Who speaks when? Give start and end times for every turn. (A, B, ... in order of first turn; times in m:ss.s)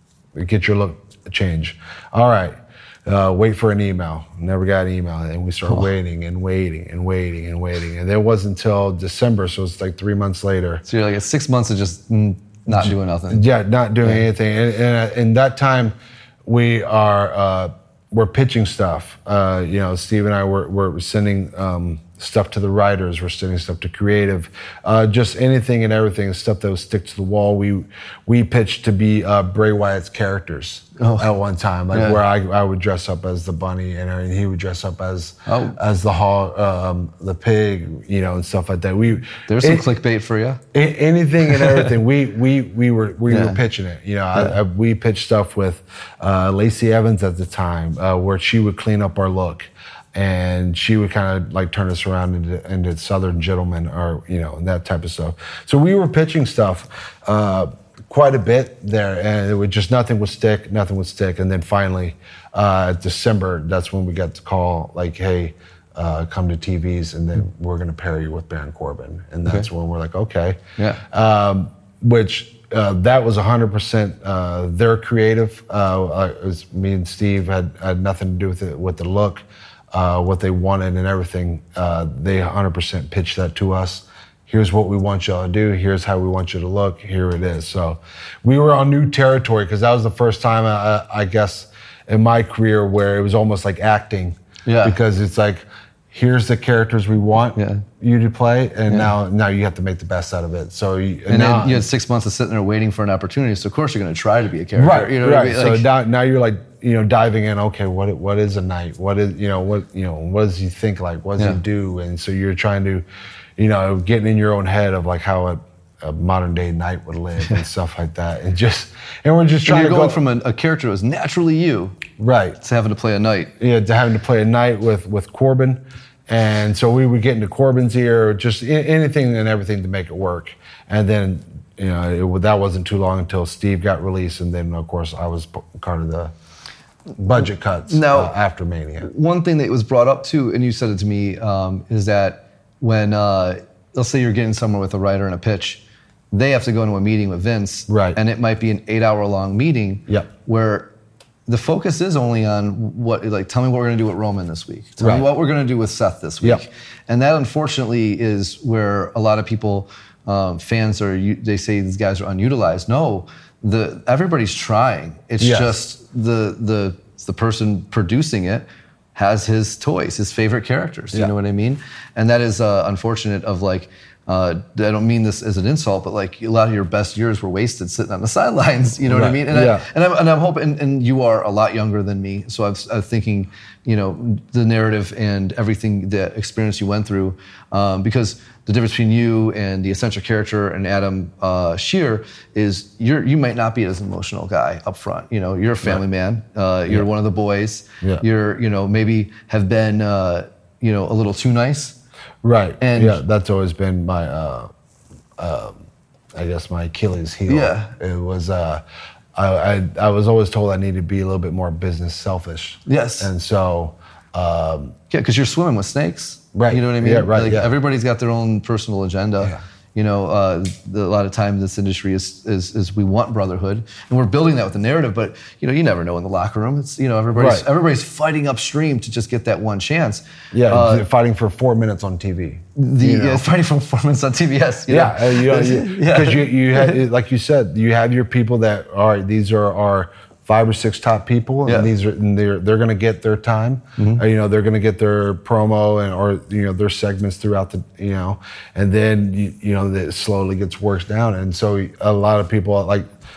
0:00.3-0:10.8 A
0:10.8-0:13.4 B
0:12.7-0:39.9 A
0:31.0-0:31.3 B
0:31.9-0:32.2 B
0:35.5-0:35.8 B
0:39.5-0:40.6 B
0:40.7-1:10.6 A
0:41.5-0:41.9 B
0:43.3-0:43.6 B
1:10.8-1:11.0 B
1:11.1-1:41.9 A
1:34.6-1:35.0 B
1:37.5-1:37.8 B
1:41.3-1:45.9 B
1:44.7-1:53.0 A
1:53.6-2:00.2 A
1:59.6-2:02.0 B
2:02.2-2:02.6 A
2:02.6-2:03.5 B
2:03.6-2:16.3 A
2:17.2-2:19.1 A
2:17.9-2:18.3 B
2:19.0-2:30.9 B
2:27.9-2:28.2 A
2:31.5-3:22.0 B
2:35.0-2:35.3 A
2:45.4-2:45.8 A
2:59.1-2:59.8 A
3:22.4-3:24.7 A
3:22.8-3:23.2 B
3:25.4-3:25.8 A
3:26.3-3:28.8 A
3:27.5-3:27.9 B
3:29.3-3:35.0 A
3:32.9-3:33.3 B
3:35.1-3:51.0 B
3:36.5-3:37.7 A
3:47.3-3:47.6 A
3:50.5-3:53.4 A
3:52.8-3:57.0 B
3:54.9-4:13.1 A
4:01.6-4:01.9 B
4:04.0-4:04.2 B